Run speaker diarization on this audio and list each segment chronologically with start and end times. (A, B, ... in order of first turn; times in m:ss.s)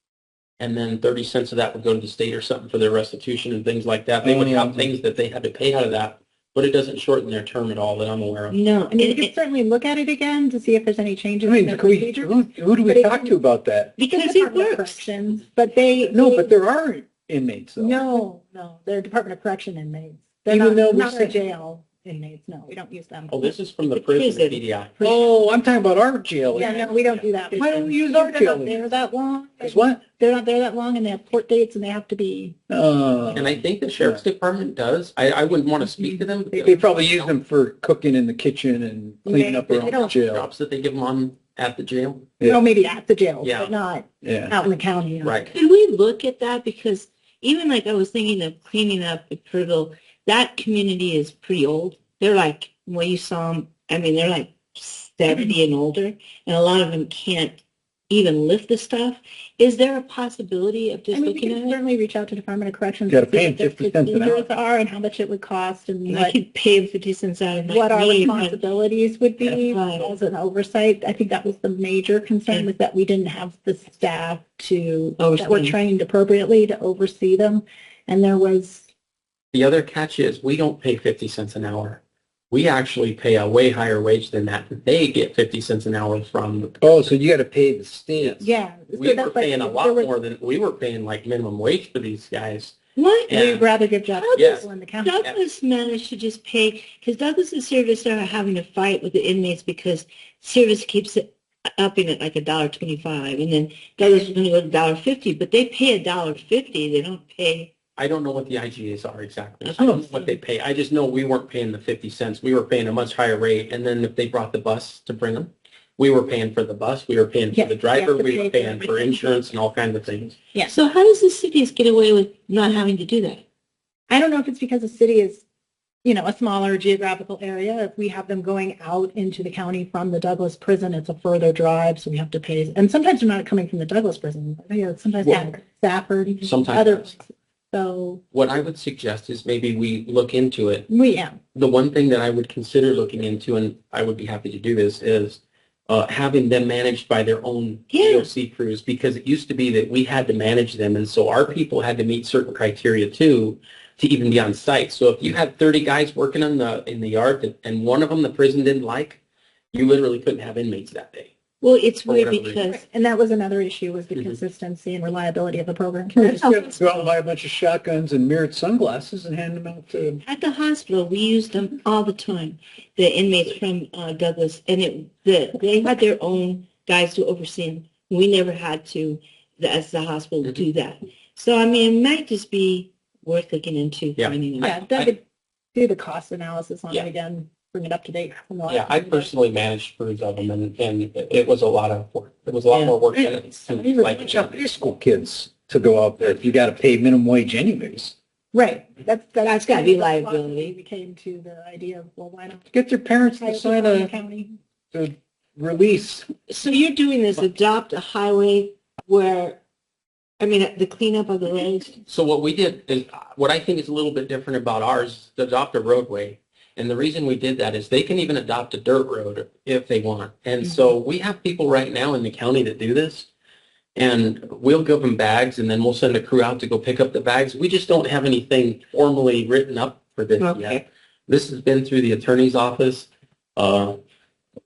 0:00.6-0:08.6 A
0:04.2-0:04.9 B
0:08.5-0:09.3 C
0:08.9-0:13.3 D
0:11.4-0:13.9 B
0:14.0-0:15.1 C
0:14.1-0:16.5 D
0:16.0-0:18.0 B
0:17.8-0:23.5 D
0:20.5-0:21.4 B
0:23.3-0:24.9 A
0:23.9-0:24.6 C
0:25.0-0:25.2 D
0:25.0-0:27.0 B
0:26.5-0:32.6 D
0:27.5-0:28.8 B
0:29.6-0:30.0 B
0:32.7-0:34.2 B
0:33.3-0:37.3 A
0:36.0-0:36.7 D
0:36.6-0:40.5 B
0:39.2-0:40.1 D
0:39.7-0:42.3 A
0:42.4-0:45.4 D
0:43.4-0:43.7 A
0:44.2-0:44.5 B
0:45.2-0:45.5 A
0:45.5-1:01.8 C
1:01.1-1:06.4 D
1:03.1-1:04.5 B
1:06.1-1:08.6 C
1:07.7-1:18.9 D
1:09.5-1:10.1 C
1:15.2-1:15.8 C
1:19.5-1:27.1 A
1:26.8-1:28.5 B
1:28.2-1:32.8 A
1:28.4-1:30.1 D
1:33.0-1:33.3 C
1:33.3-1:33.6 A
1:33.3-1:35.2 D
1:34.2-1:47.7 C
1:34.4-1:34.6 A
1:48.0-2:00.4 A
1:49.6-1:50.4 C
1:49.8-1:50.0 B
1:57.5-1:59.4 D
2:00.6-2:03.4 C
2:04.1-2:05.4 D
2:06.0-2:18.2 D
2:15.2-2:15.5 A
2:16.4-2:17.1 A
2:18.3-2:20.9 A
2:20.9-2:21.4 D
2:21.5-2:39.2 A
2:27.9-2:28.3 C
2:39.7-2:41.3 A
2:41.6-2:42.8 C
2:42.0-2:42.6 A
2:42.6-2:46.2 D
2:46.1-2:50.2 B
2:50.2-3:04.7 C
3:04.2-3:05.1 A
3:04.6-3:05.2 D
3:05.7-3:09.3 D
3:08.7-3:14.6 A
3:12.7-3:13.0 C
3:13.1-3:18.1 B
3:18.5-3:22.6 D
3:19.4-3:20.8 C
3:22.7-3:24.1 B
3:23.4-3:24.6 D
3:24.9-3:26.3 B
3:26.5-3:29.6 C
3:30.4-3:32.0 C
3:32.1-3:43.3 A
3:40.6-3:40.9 C
3:43.9-3:54.0 A
3:50.4-3:50.8 C